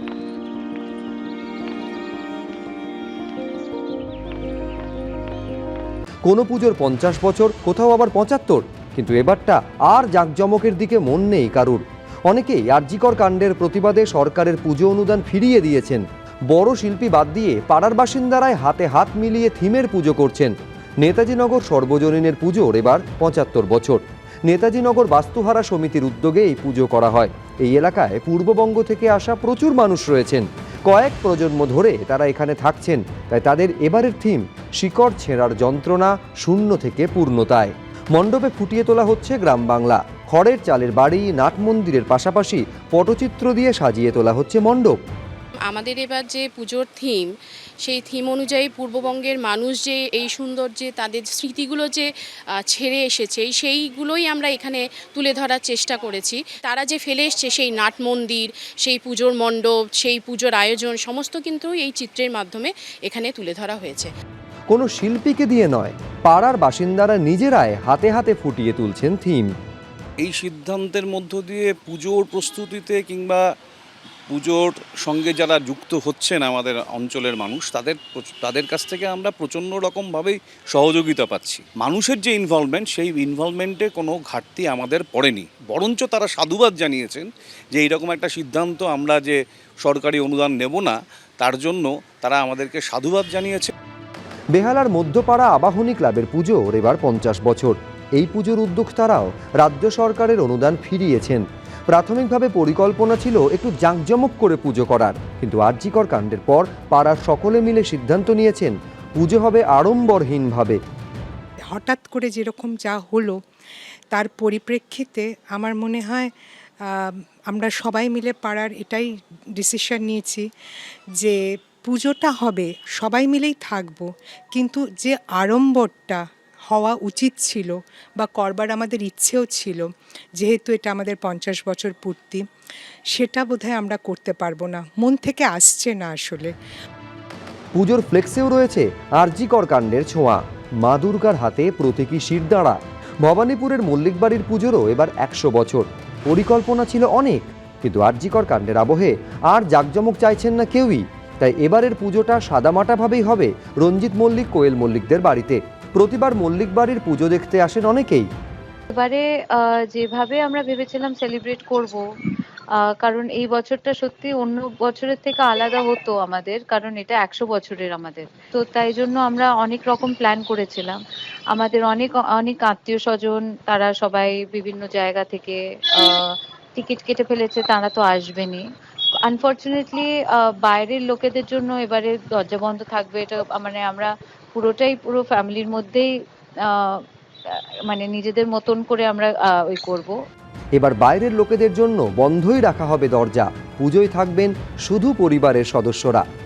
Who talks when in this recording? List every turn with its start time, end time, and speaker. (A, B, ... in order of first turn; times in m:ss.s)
0:06.2-0:45.0 A
0:45.7-0:47.3 B
0:47.8-0:52.1 B
0:52.6-1:04.1 B
1:04.7-1:09.5 A
1:10.2-1:13.4 C
1:14.3-1:33.7 C
1:34.5-1:50.8 A
1:51.7-1:53.4 D
1:54.1-1:56.3 D
1:56.8-2:00.4 D
2:01.2-2:12.4 D
2:13.1-2:16.5 D
2:17.7-2:38.3 A
2:38.9-2:42.0 E
2:42.9-2:51.0 E
2:51.5-2:58.6 E
2:59.2-3:06.1 E
3:06.7-3:07.0 E
3:07.9-3:10.2 E
3:10.8-3:16.2 A